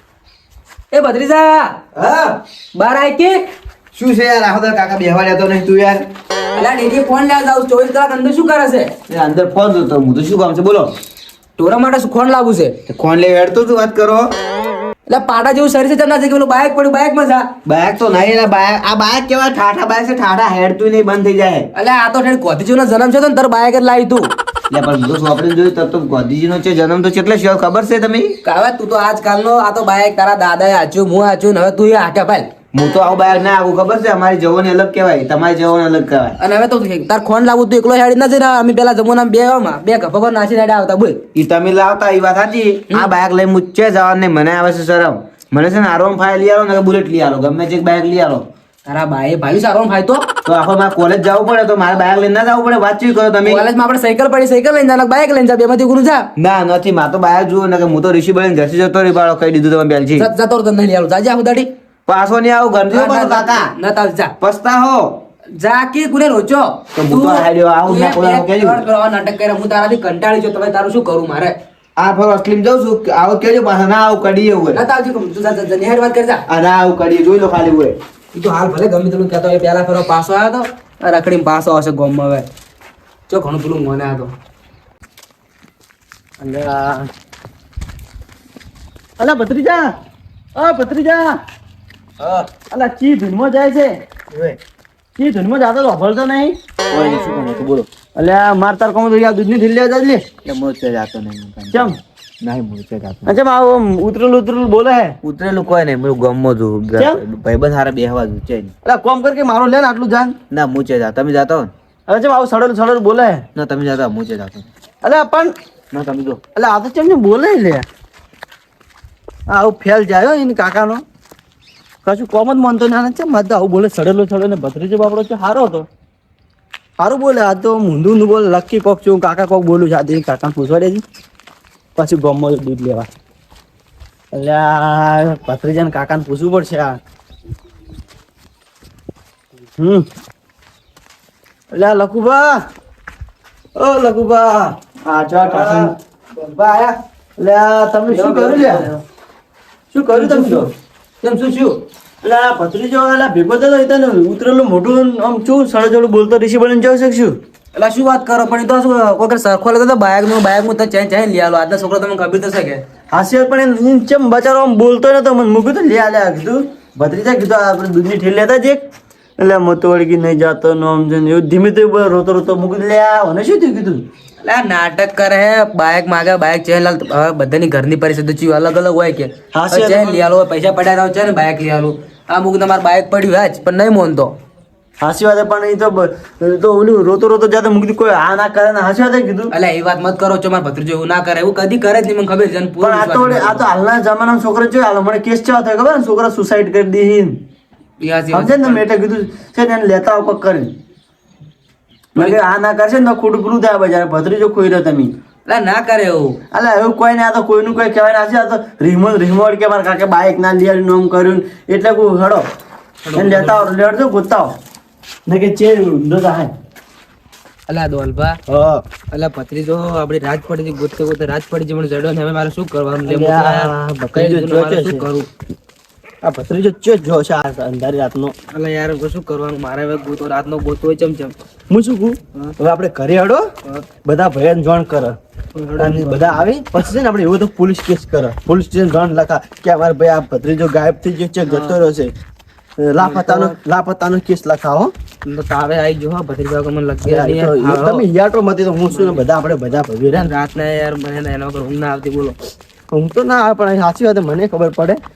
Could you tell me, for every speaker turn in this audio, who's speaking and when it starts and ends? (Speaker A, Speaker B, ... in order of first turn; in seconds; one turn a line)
Speaker A: 0.9-1.8
Speaker B: 1.9-2.3
Speaker A: 2.7-3.5
Speaker B: 3.9-6.0
Speaker A: 6.5-8.9
Speaker B: 9.1-10.9
Speaker A: 11.6-12.8
Speaker B: 12.9-14.3
Speaker A: 15.1-17.5
Speaker B: 17.6-21.7
Speaker A: 21.7-24.3
Speaker B: 24.7-28.4
Speaker A: 28.4-32.5
Speaker B: 32.7-36.4
Speaker A: 36.4-41.2
Speaker B: 41.3-48.5
Speaker A: 48.9-50.3
Speaker B: 50.5-53.6
Speaker A: 53.4-56.3
Speaker B: 56.4-60.3
Speaker A: 60.2-61.7
Speaker B: 62.1-63.7
Speaker A: 62.9-64.3
Speaker B: 64.4-65.2
Speaker A: 65.5-71.5
Speaker B: 67.0-68.8
Speaker B: 72.0-74.8
Speaker A: 74.7-76.4
Speaker B: 76.5-78.0
Speaker A: 78.3-82.5
Speaker A: 83.3-84.3
Speaker C: 86.4-87.1
Speaker C: 89.2-89.9
Speaker C: 90.5-91.4
Speaker C: 92.6-94.5
Speaker C: 95.2-100.3
Speaker B: 100.4-102.0
Speaker C: 101.7-105.2
Speaker B: 105.2-108.7
Speaker C: 108.8-110.3
Speaker B: 110.5-111.7
Speaker C: 112.1-113.4
Speaker B: 113.5-114.7
Speaker C: 115.0-117.8
Speaker C: 119.5-121.0
Speaker C: 122.0-125.9
Speaker C: 127.0-131.0
Speaker C: 131.9-133.1
Speaker C: 134.3-137.0
Speaker C: 139.8-140.1
Speaker C: 141.7-142.6
Speaker C: 143.8-145.9
Speaker A: 145.4-146.9
Speaker C: 147.4-148.9
Speaker A: 148.1-149.0
Speaker C: 149.9-150.7
Speaker A: 150.1-150.7
Speaker A: 151.2-151.8
Speaker C: 152.2-157.4
Speaker A: 157.7-162.8
Speaker C: 163.1-168.8
Speaker C: 169.4-174.1
Speaker A: 174.4-184.3
Speaker C: 179.5-180.2
Speaker C: 185.0-189.5
Speaker A: 189.5-193.7
Speaker C: 192.8-197.4
Speaker A: 198.0-198.8
Speaker C: 198.3-200.7
Speaker C: 202.2-205.1
Speaker A: 205.4-206.4
Speaker C: 206.5-212.5
Speaker A: 213.0-213.7
Speaker C: 213.1-214.6
Speaker C: 215.2-216.5
Speaker A: 217.7-218.4
Speaker C: 218.5-218.8
Speaker A: 219.1-225.3
Speaker C: 223.1-225.0
Speaker C: 226.2-228.3
Speaker A: 228.5-231.3
Speaker C: 231.7-233.5
Speaker C: 234.0-235.2
Speaker A: 235.5-236.5
Speaker C: 235.8-242.1
Speaker A: 241.5-241.8
Speaker C: 242.8-244.9
Speaker A: 243.0-243.6
Speaker A: 245.2-248.1
Speaker C: 247.0-250.3
Speaker A: 248.9-249.2
Speaker A: 250.1-252.4
Speaker C: 252.9-255.0